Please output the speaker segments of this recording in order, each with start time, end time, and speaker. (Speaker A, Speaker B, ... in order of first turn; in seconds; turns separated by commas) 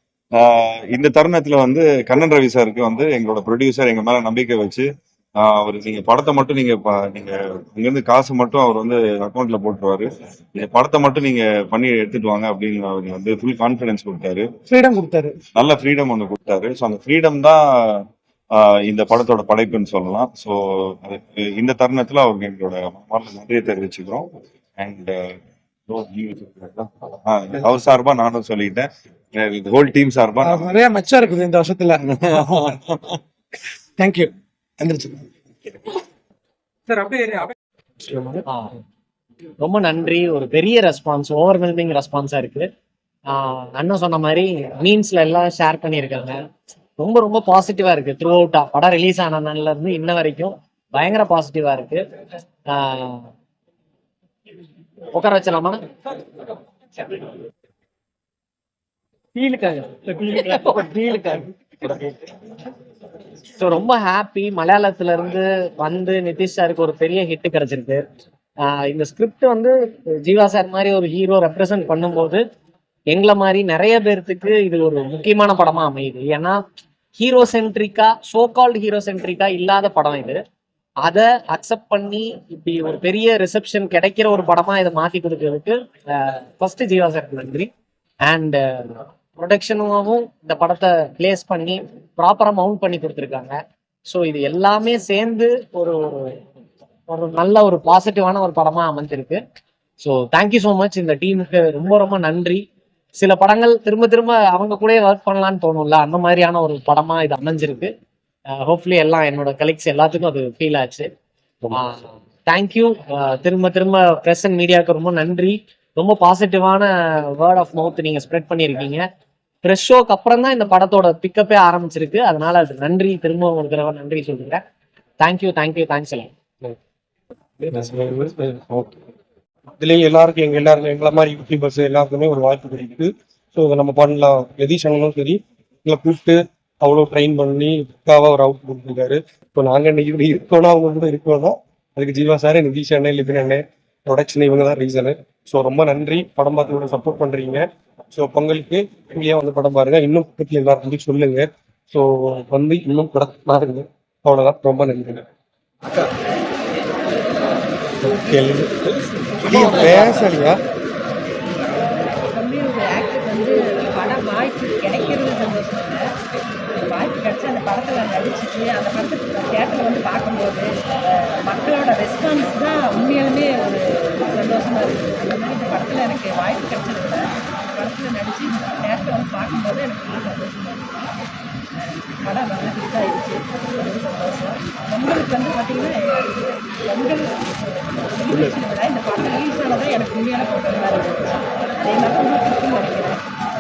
Speaker A: 0.3-14.5, Speaker B: 14.7-15.3, Speaker A: 15.6-24.3, Speaker A: 24.8-30.7, Speaker B: 30.4-32.6, Speaker A: 32.1-32.9, Speaker B: 34.0-35.2, Speaker B: 36.9-37.5, Speaker B: 38.1-38.4, Speaker C: 38.5-38.7, Speaker C: 39.6-42.7, Speaker C: 43.3-46.5, Speaker C: 47.0-52.0, Speaker C: 52.7-53.3, Speaker C: 55.1-55.8, Speaker C: 59.4-62.0, Speaker C: 63.6-68.0, Speaker C: 68.7-72.4, Speaker C: 73.1-76.6, Speaker C: 77.2-80.4, Speaker C: 81.0-87.7, Speaker C: 88.3-93.6, Speaker C: 94.1-96.3, Speaker C: 97.1-99.4, Speaker C: 100.0-102.6, Speaker C: 103.2-107.9, Speaker C: 108.6-111.1, Speaker C: 111.7-119.0, Speaker C: 119.6-124.6, Speaker C: 125.2-126.3, Speaker D: 127.6-128.9, Speaker D: 129.8-155.2, Speaker D: 158.1-158.7, Speaker E: 158.2-158.6, Speaker D: 159.4-160.6, Speaker E: 159.4-160.4, Speaker E: 161.7-166.0, Speaker E: 166.8-181.1, Speaker E: 181.7-193.2